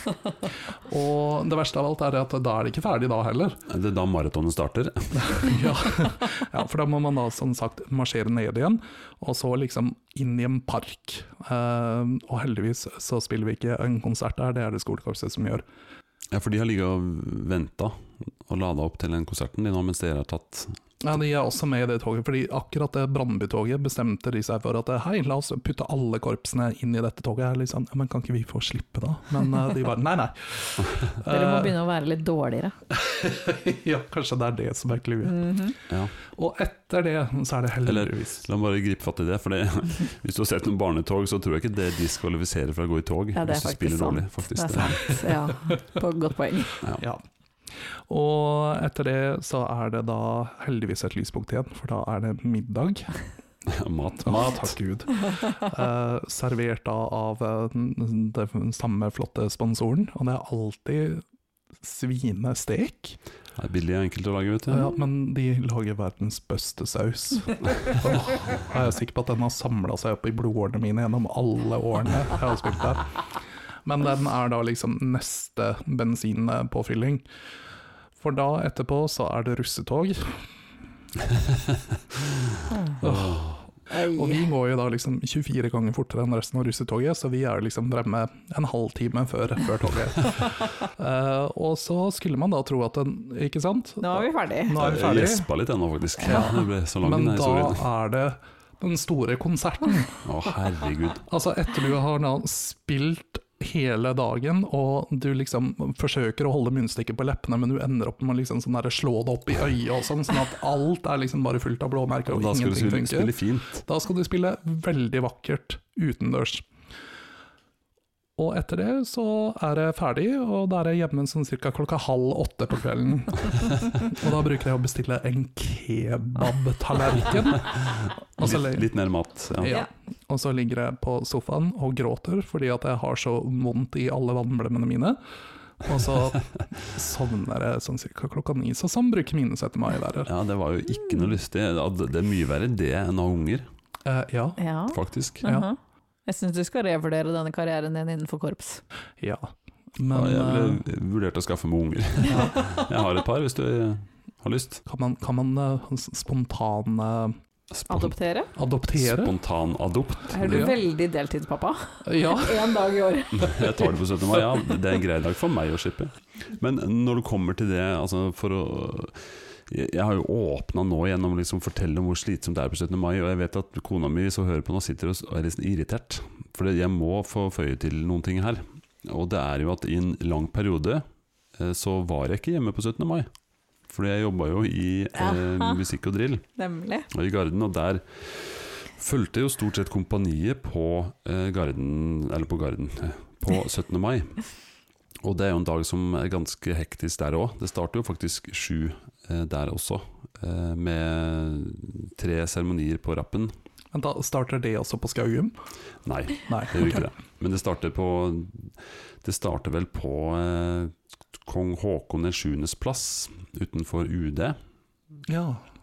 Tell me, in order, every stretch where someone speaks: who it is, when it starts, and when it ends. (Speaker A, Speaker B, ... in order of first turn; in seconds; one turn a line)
Speaker A: 0.7-3.6
Speaker B: 3.7-5.5
Speaker A: 5.3-15.6
Speaker B: 16.3-20.8
Speaker A: 21.0-31.7
Speaker B: 30.8-31.1
Speaker C: 31.2-32.7
Speaker A: 32.9-35.7
Speaker C: 35.2-35.8
Speaker A: 36.3-38.4
Speaker B: 37.8-45.1
Speaker C: 43.3-46.8
Speaker A: 48.1-53.1
Speaker B: 53.6-54.7
Speaker A: 54.2-61.2
Speaker A: 61.8-63.2
Speaker B: 63.6-64.9
Speaker A: 64.7-73.1
Speaker A: 73.8-77.2
Speaker A: 78.2-80.5
Speaker C: 82.7-83.0
Speaker B: 83.0-83.6
Speaker A: 83.0-95.5
Speaker C: 83.9-84.5
Speaker C: 94.0-94.8
Speaker B: 94.8-97.8
Speaker A: 96.2-100.2
Speaker C: 96.2-96.5
Speaker B: 100.2-101.2
Speaker A: 101.2-116.7
Speaker B: 112.3-113.8
Speaker A: 118.4-127.8
Speaker B: 127.8-129.8
Speaker A: 128.4-128.9
Speaker A: 129.6-135.2
Speaker A: 135.8-140.3
Speaker B: 140.2-143.7
Speaker A: 144.0-144.6
Speaker C: 144.6-148.8
Speaker B: 144.9-145.4
Speaker A: 149.2-150.8
Speaker B: 150.1-154.8
Speaker A: 152.3-152.6
Speaker A: 154.8-157.3
Speaker B: 157.7-158.1
Speaker C: 157.9-158.5
Speaker A: 158.6-159.3
Speaker B: 158.9-160.7
Speaker C: 160.3-163.8
Speaker A: 160.4-160.7
Speaker A: 162.1-162.8
Speaker B: 163.3-181.0
Speaker B: 181.6-183.3
Speaker B: 183.9-186.4
Speaker C: 185.2-185.8
Speaker C: 186.6-187.1
Speaker B: 187.1-194.4
Speaker B: 195.2-203.5
Speaker A: 203.9-205.5
Speaker B: 206.0-214.6
Speaker A: 206.5-207.0
Speaker A: 215.3-215.6